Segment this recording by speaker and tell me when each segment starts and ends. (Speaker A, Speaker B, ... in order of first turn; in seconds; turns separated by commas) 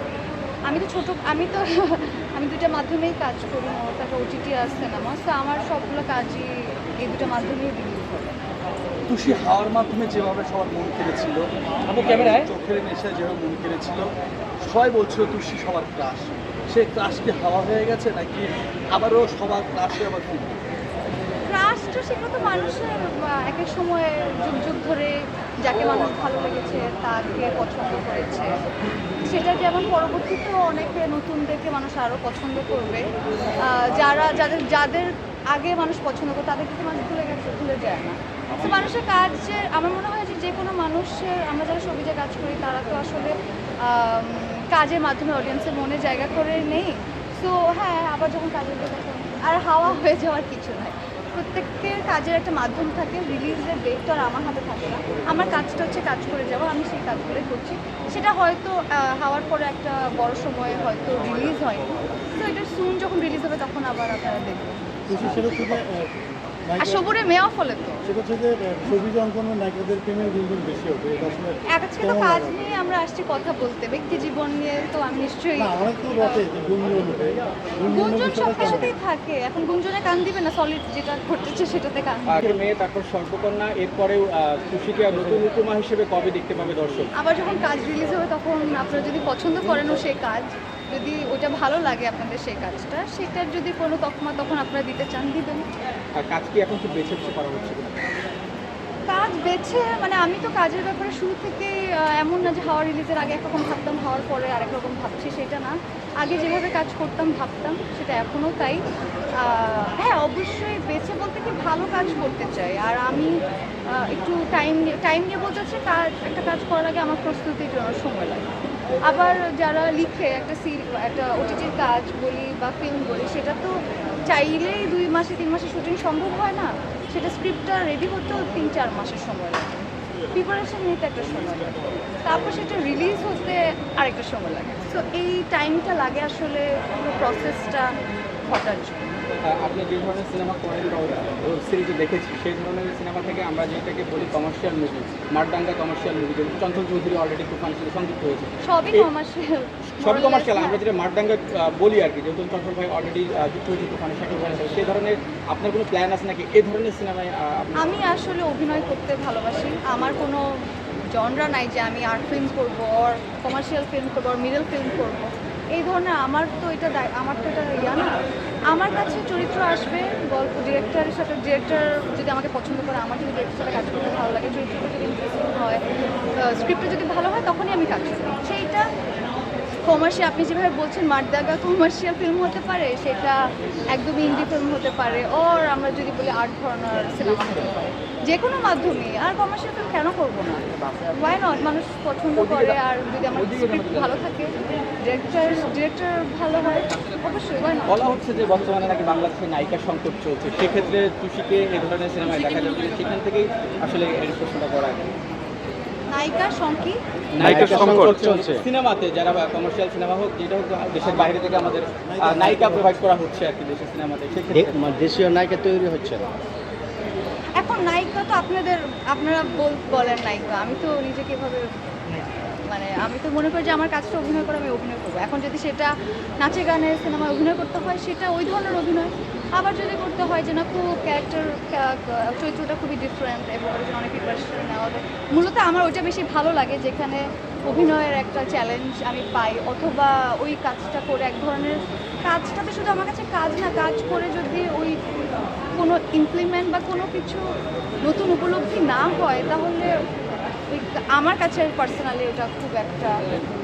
Speaker A: 0.7-8.4, Speaker B: 9.1-14.1, Speaker B: 14.6-20.6, Speaker A: 21.5-28.7, Speaker A: 29.2-33.1, Speaker A: 33.6-64.8, Speaker C: 65.1-66.1, Speaker D: 65.2-65.8, Speaker C: 66.7-67.0, Speaker A: 66.8-68.0, Speaker C: 68.0-72.5, Speaker A: 71.7-76.4, Speaker C: 75.6-78.9, Speaker A: 77.9-82.5, Speaker D: 82.3-87.1, Speaker A: 87.2-95.7, Speaker D: 96.2-98.0, Speaker A: 99.1-108.8, Speaker A: 109.4-113.3, Speaker A: 113.9-129.7, Speaker A: 130.3-137.9, Speaker A: 138.5-139.3, Speaker D: 139.4-149.1, Speaker A: 148.6-150.8, Speaker D: 150.0-157.9, Speaker A: 157.8-160.4, Speaker A: 161.1-168.1, Speaker A: 168.7-175.8, Speaker A: 176.4-178.9, Speaker A: 179.8-183.4, Speaker A: 183.9-198.0, Speaker D: 192.4-192.8, Speaker D: 193.3-194.4, Speaker D: 197.9-205.1, Speaker A: 206.1-207.0, Speaker D: 207.3-214.8, Speaker E: 207.4-208.6, Speaker E: 214.5-216.3, Speaker A: 217.6-221.7, Speaker A: 222.7-245.0, Speaker A: 245.8-247.5, Speaker A: 248.0-250.0, Speaker A: 250.7-253.3